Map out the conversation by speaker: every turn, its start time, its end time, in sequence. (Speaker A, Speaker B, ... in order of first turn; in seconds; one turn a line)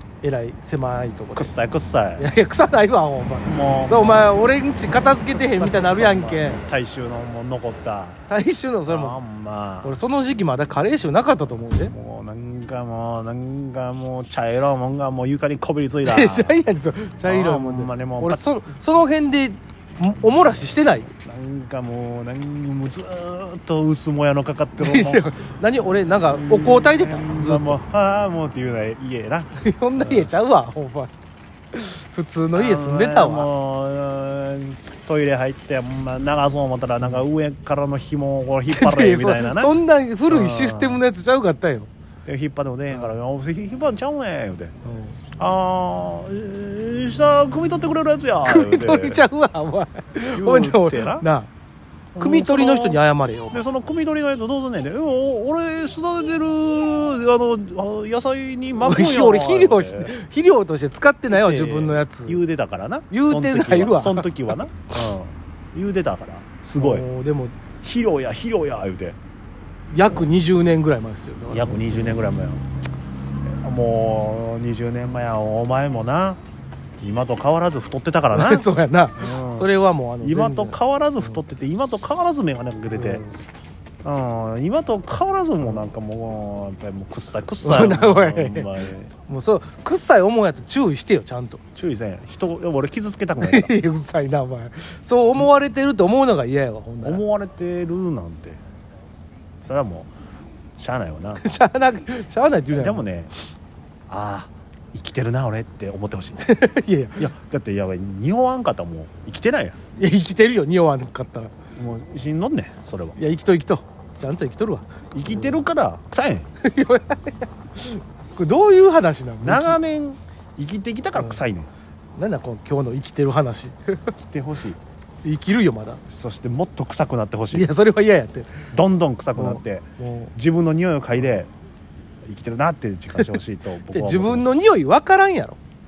Speaker A: 0.2-1.5
Speaker B: 1.4-2.2
Speaker A: 2.2-6.6
Speaker B: 3.4-4.4
Speaker B: 5.3-8.2
Speaker A: 8.3-9.2
Speaker B: 8.9-10.0
Speaker A: 9.8-11.9
Speaker B: 11.8-16.6
Speaker A: 16.1-21.1
Speaker B: 17.3-18.4
Speaker B: 21.1-25.3
Speaker A: 24.8-27.8
Speaker B: 26.2-30.3
Speaker A: 29.6-31.1
Speaker A: 31.7-33.5
Speaker B: 32.5-39.8
Speaker A: 38.7-41.9
Speaker B: 40.3-41.0
Speaker B: 42.3-44.7
Speaker A: 44.9-45.2
Speaker B: 45.4-49.2
Speaker A: 48.5-51.5
Speaker B: 50.2-51.3
Speaker B: 52.1-60.1
Speaker A: 52.2-53.6
Speaker A: 58.8-62.4
Speaker B: 61.3-67.1
Speaker A: 63.1-64.3
Speaker A: 66.8-67.6
Speaker B: 67.8-69.2
Speaker A: 69.9-72.2
Speaker B: 71.5-72.6
Speaker B: 73.5-76.4
Speaker B: 77.0-83.2
Speaker A: 78.3-81.4
Speaker A: 82.9-83.3
Speaker B: 84.0-89.1
Speaker A: 87.6-91.6
Speaker B: 91.8-93.7
Speaker A: 93.4-97.2
Speaker B: 97.0-98.6
Speaker B: 99.6-100.1
Speaker B: 100.8-101.4
Speaker A: 101.4-103.0
Speaker B: 102.7-103.3
Speaker B: 104.1-106.4
Speaker A: 106.4-107.3
Speaker B: 107.2-109.8
Speaker A: 110.0-111.5
Speaker B: 111.8-113.2
Speaker A: 113.2-115.6
Speaker B: 115.1-116.5
Speaker A: 116.6-119.8
Speaker B: 119.4-121.7
Speaker A: 122.2-124.1
Speaker B: 124.2-124.8
Speaker A: 125.2-126.0
Speaker B: 126.1-127.7
Speaker A: 127.5-128.7
Speaker B: 128.7-131.5
Speaker A: 129.3-130.3
Speaker B: 132.2-134.6
Speaker A: 133.9-135.6